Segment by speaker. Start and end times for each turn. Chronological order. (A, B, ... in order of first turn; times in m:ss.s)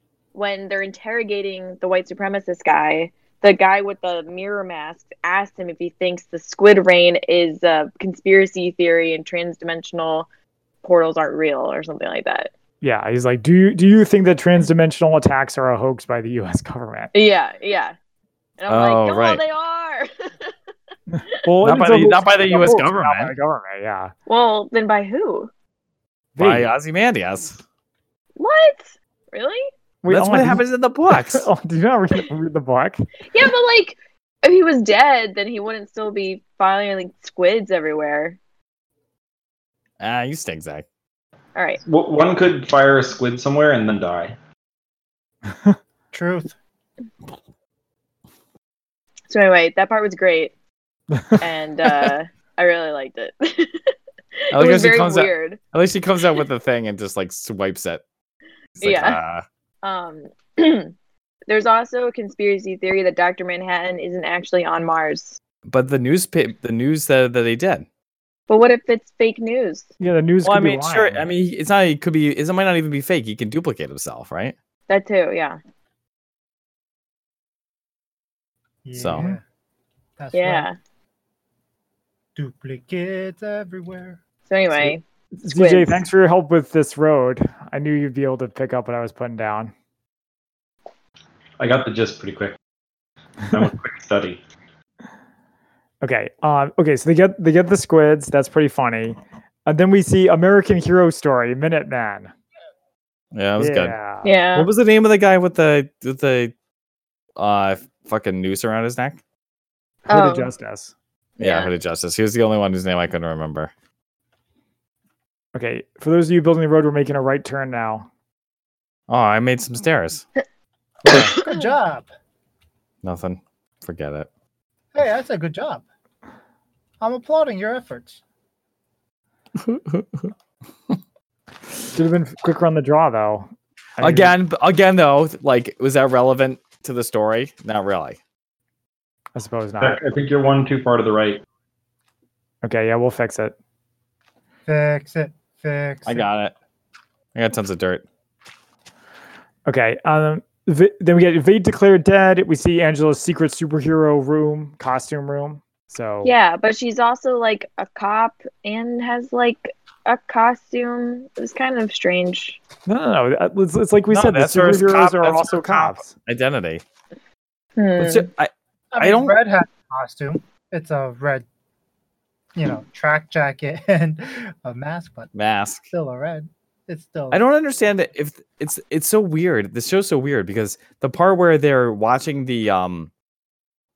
0:00.3-0:10.3 A
0:10.8-0:12.5 A
0:12.8-0:17.1 B
0:17.1-0:18.0 A
0:18.6-0:20.5 A
0:18.7-0:19.4 C
0:21.1-0:24.1 B
0:21.6-0:23.4 C
0:24.3-0:25.5 A
0:26.4-0:26.7 B
0:26.4-0:27.6 C
0:28.4-0:29.6 A
0:30.0-0:33.1 B
0:30.1-0:31.5 C
0:33.3-0:38.4 A
0:40.0-0:40.8 C
0:41.6-0:41.8 A
0:41.8-0:44.4 D
0:46.1-0:46.5 E
0:49.3-0:50.5 A
0:51.1-0:51.4 B
0:51.4-0:55.6 A
0:54.5-0:58.0 C
0:58.8-0:59.4 C
0:58.8-0:59.2 A
0:59.8-1:00.9 A
1:01.5-1:05.4 A
1:05.7-1:07.9 C
1:08.5-1:09.9 A
1:10.0-1:11.3 B
1:10.4-1:14.6 C
1:14.9-1:15.6 A
1:18.8-1:19.4 E
1:19.0-1:19.3 C
1:20.2-1:20.7 E
1:20.3-1:20.8 A
1:22.4-1:24.2 E
1:24.5-1:26.0 A
1:24.8-1:29.7 B
1:31.6-1:32.6 D
1:33.5-1:34.4 D
1:36.0-1:42.3 B
1:43.3-1:43.9 C
1:43.6-1:44.3 B
1:44.2-1:44.7 A
1:44.6-1:46.5 C
1:47.4-1:49.2 C
1:50.1-1:50.9 B
1:50.1-1:50.5 A
1:51.4-1:51.7 A
1:51.4-1:53.7 C
1:55.6-1:58.1 B
1:59.1-2:00.2 C
2:01.1-2:01.4 B
2:01.4-2:02.1 E
2:01.4-2:01.6 A
2:03.0-2:04.3 C
2:05.0-2:05.8 E
2:07.0-2:08.2 E
2:09.6-2:10.3 C
2:11.9-2:14.3 B
2:14.0-2:18.2 C
2:19.4-2:20.0 B
2:19.8-2:21.4 D
2:22.6-2:23.6 B
2:24.7-2:26.2 E
2:26.1-2:26.5 C
2:27.4-2:28.0 C
2:29.7-2:36.3 B
2:36.2-2:42.6 A
2:42.9-2:46.2 B
2:44.1-2:46.8 C
2:47.8-2:48.3 A
2:48.0-2:49.4 C
2:48.9-2:51.5 E
2:52.6-2:55.3 E
2:55.4-2:55.8 C
2:55.9-2:57.4 E
2:57.3-3:03.1 C